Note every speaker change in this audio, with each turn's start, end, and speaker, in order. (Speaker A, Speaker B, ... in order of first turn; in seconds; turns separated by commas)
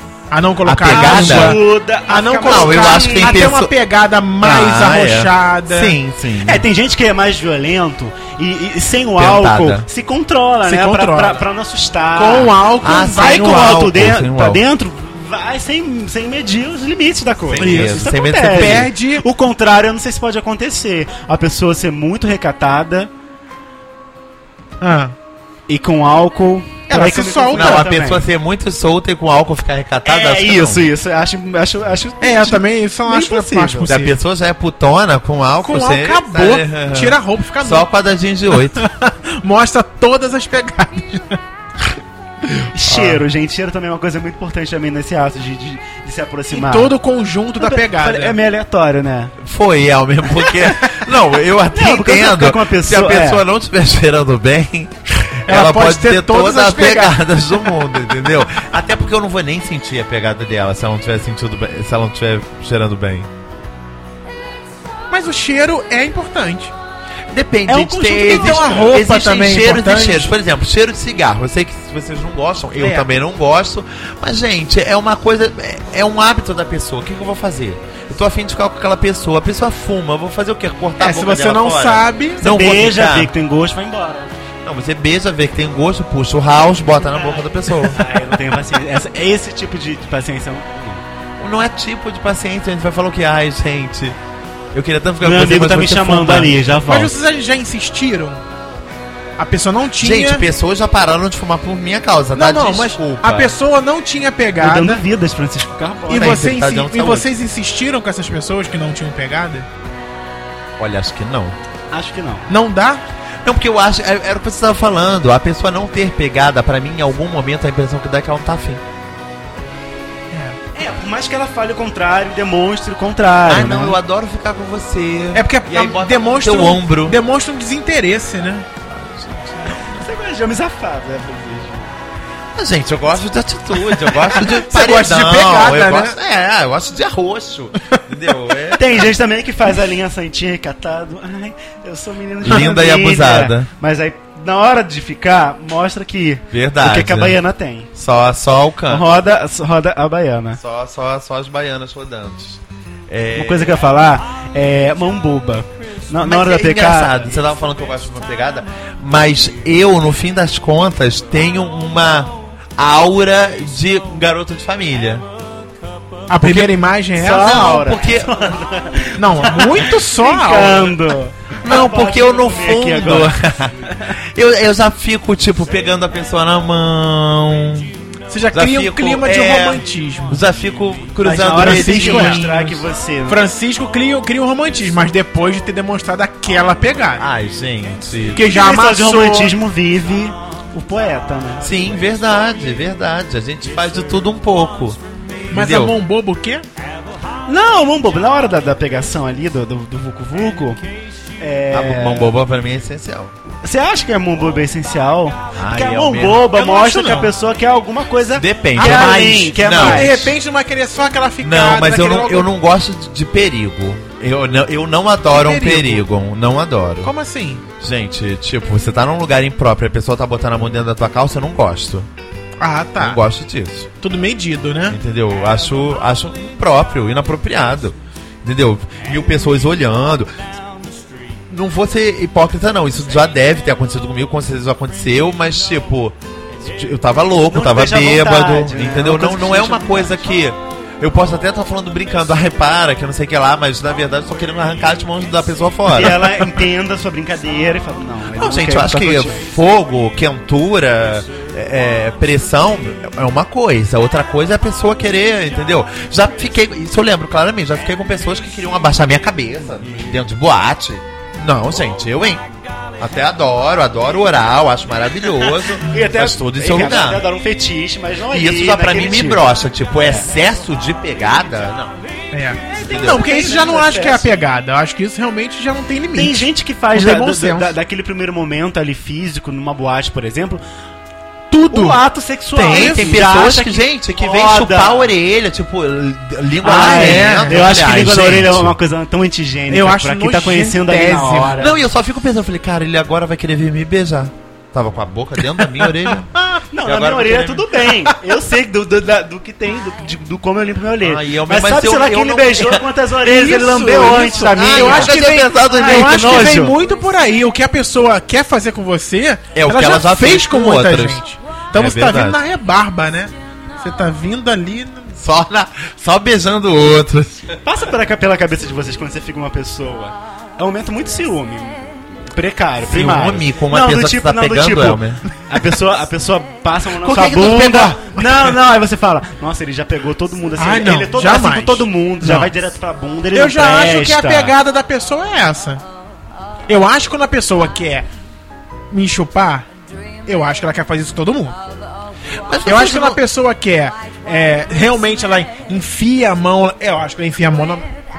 Speaker A: 0.3-6.0, Speaker B: 0.6-1.6, Speaker C: 0.9-3.5, Speaker B: 2.4-3.7, Speaker B: 4.4-6.7, Speaker C: 6.4-12.6, Speaker B: 9.2-9.8, Speaker A: 10.6-11.4, Speaker A: 12.1-13.9, Speaker B: 12.8-14.6, Speaker C: 13.1-23.1, Speaker B: 17.5-18.9, Speaker A: 17.6-19.2, Speaker A: 24.8-25.1, Speaker C: 25.7-28.2, Speaker A: 26.9-27.9, Speaker B: 27.5-30.9, Speaker C: 30.0-33.9, Speaker A: 32.2-34.1, Speaker B: 33.9-38.8, Speaker A: 35.6-37.9, Speaker A: 38.5-41.4, Speaker C: 42.7-46.9, Speaker B: 42.9-43.2, Speaker A: 46.5-48.4, Speaker C: 47.6-49.3, Speaker B: 49.4-63.3, Speaker C: 51.7-53.4, Speaker A: 55.5-57.5, Speaker A: 65.1-66.7, Speaker B: 67.3-83.3, Speaker C: 67.7-68.9, Speaker A: 68.2-70.3, Speaker A: 72.8-73.1, Speaker A: 81.0-82.4, Speaker C: 82.4-84.3, Speaker B: 84.6-88.0, Speaker C: 87.1-91.0, Speaker B: 91.4-94.2, Speaker B: 94.7-96.6, Speaker C: 95.2-97.1, Speaker A: 96.9-98.4, Speaker A: 99.4-100.4, Speaker B: 100.0-103.5, Speaker A: 102.3-105.0, Speaker C: 104.6-106.5, Speaker A: 106.1-109.7, Speaker B: 106.1-107.3, Speaker B: 110.8-111.6, Speaker C: 111.9-112.5, Speaker A: 112.5-113.0, Speaker B: 113.4-118.8, Speaker A: 120.3-120.6, Speaker C: 120.7-124.0, Speaker B: 123.5-127.2, Speaker A: 125.3-128.7, Speaker B: 128.9-130.0, Speaker C: 129.9-131.9, Speaker B: 132.5-139.0, Speaker A: 134.3-136.2, Speaker C: 138.8-147.9, Speaker B: 142.4-143.7, Speaker B: 146.5-147.4, Speaker B: 147.9-149.1, Speaker C: 148.9-150.6, Speaker B: 150.6-153.8, Speaker C: 153.3-157.2, Speaker B: 156.2-165.2, Speaker A: 166.3-167.7, Speaker B: 166.4-166.7, Speaker C: 167.2-173.3, Speaker B: 167.3-168.6, Speaker A: 169.2-171.0, Speaker B: 171.6-177.9, Speaker A: 178.3-180.4, Speaker B: 178.5-182.8, Speaker C: 181.2-183.4, Speaker A: 181.5-182.5, Speaker A: 183.3-187.2, Speaker B: 187.2-188.4, Speaker A: 188.3-189.5, Speaker C: 188.4-191.7, Speaker B: 191.6-195.9, Speaker A: 195.5-196.6, Speaker C: 197.5-200.8, Speaker C: 201.4-202.3, Speaker B: 201.7-203.3, Speaker C: 203.6-210.3, Speaker B: 205.5-206.4, Speaker A: 206.5-207.3, Speaker B: 208.3-210.1, Speaker A: 208.8-212.5, Speaker B: 211.4-217.1, Speaker A: 215.3-216.0, Speaker A: 217.0-217.6, Speaker B: 217.8-222.1, Speaker A: 222.6-223.2, Speaker B: 223.0-223.9, Speaker A: 224.0-225.0, Speaker B: 224.9-230.5, Speaker B: 231.5-246.5, Speaker C: 237.5-240.2, Speaker C: 245.9-249.4, Speaker B: 248.3-262.4, Speaker B: 263.0-267.2, Speaker C: 265.7-269.4, Speaker B: 268.3-271.9, Speaker C: 270.0-270.2, Speaker A: 272.3-277.7, Speaker C: 272.7-274.3, Speaker B: 272.8-273.2, Speaker C: 276.1-280.6, Speaker A: 281.5-282.0, Speaker C: 281.7-285.1, Speaker B: 282.6-288.7, Speaker A: 282.6-283.2, Speaker C: 286.6-291.7, Speaker A: 286.6-287.7, Speaker A: 289.7-291.7, Speaker B: 291.6-296.3, Speaker A: 295.8-296.5, Speaker C: 296.7-306.7, Speaker B: 296.8-297.7, Speaker B: 301.0-302.9, Speaker A: 303.2-315.1, Speaker B: 304.5-306.7, Speaker B: 309.5-311.2, Speaker B: 311.7-312.4, Speaker B: 315.1-317.6, Speaker C: 317.6-334.5, Speaker B: 322.8-325.2, Speaker B: 327.0-328.0, Speaker A: 330.6-332.5, Speaker A: 333.3-335.8, Speaker A: 336.7-338.1, Speaker A: 338.9-339.6, Speaker A: 340.2-341.6, Speaker B: 342.4-343.2, Speaker A: 342.6-347.9